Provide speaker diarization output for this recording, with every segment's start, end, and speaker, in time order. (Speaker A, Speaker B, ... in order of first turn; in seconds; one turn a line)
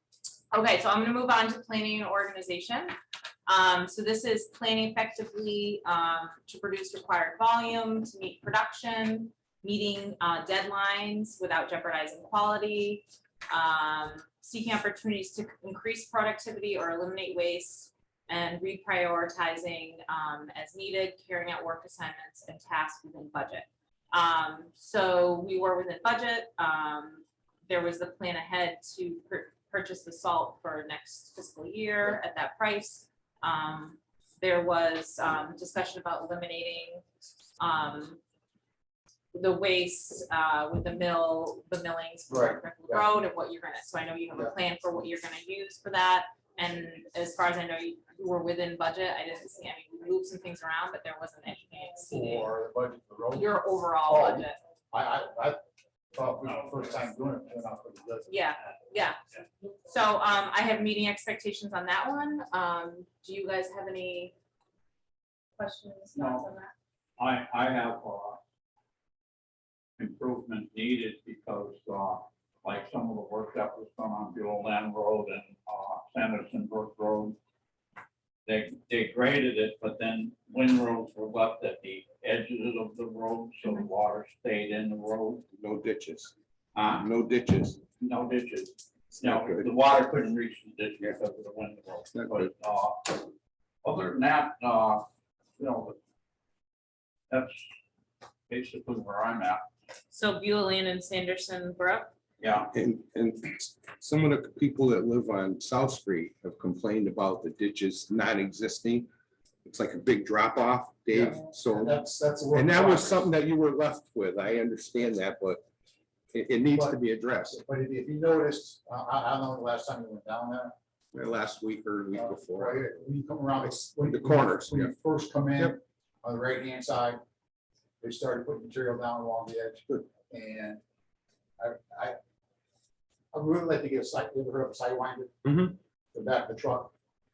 Speaker A: 0.5-3.0
Speaker A: 3.5-37.0
Speaker A: 37.6-38.2
Speaker A: 39.3-52.5
Speaker B: 42.3-43.1
Speaker B: 52.1-55.6
Speaker A: 53.3-54.6
Speaker B: 56.1-58.3
Speaker A: 58.3-59.2
Speaker A: 59.9-64.3
Speaker A: 65.6-66.7
Speaker C: 66.1-66.5
Speaker C: 67.2-68.4
Speaker C: 70.0-77.4
Speaker C: 78.5-85.5
Speaker D: 85.5-86.3
Speaker C: 86.8-87.1
Speaker D: 86.9-87.8
Speaker C: 88.0-93.3
Speaker D: 89.2-89.7
Speaker D: 92.1-92.5
Speaker C: 93.8-95.1
Speaker C: 95.6-96.0
Speaker C: 97.3-97.7
Speaker C: 98.5-99.6
Speaker A: 100.1-102.1
Speaker C: 102.4-102.7
Speaker D: 102.7-109.1
Speaker D: 109.7-115.6
Speaker B: 111.1-113.3
Speaker D: 116.3-117.6
Speaker B: 116.7-120.7
Speaker D: 121.1-122.8
Speaker B: 122.1-127.2
Speaker D: 124.0-124.9
Speaker B: 128.0-130.8
Speaker B: 131.6-132.2
Speaker B: 133.3-135.4
Speaker D: 135.4-135.8
Speaker B: 136.1-136.9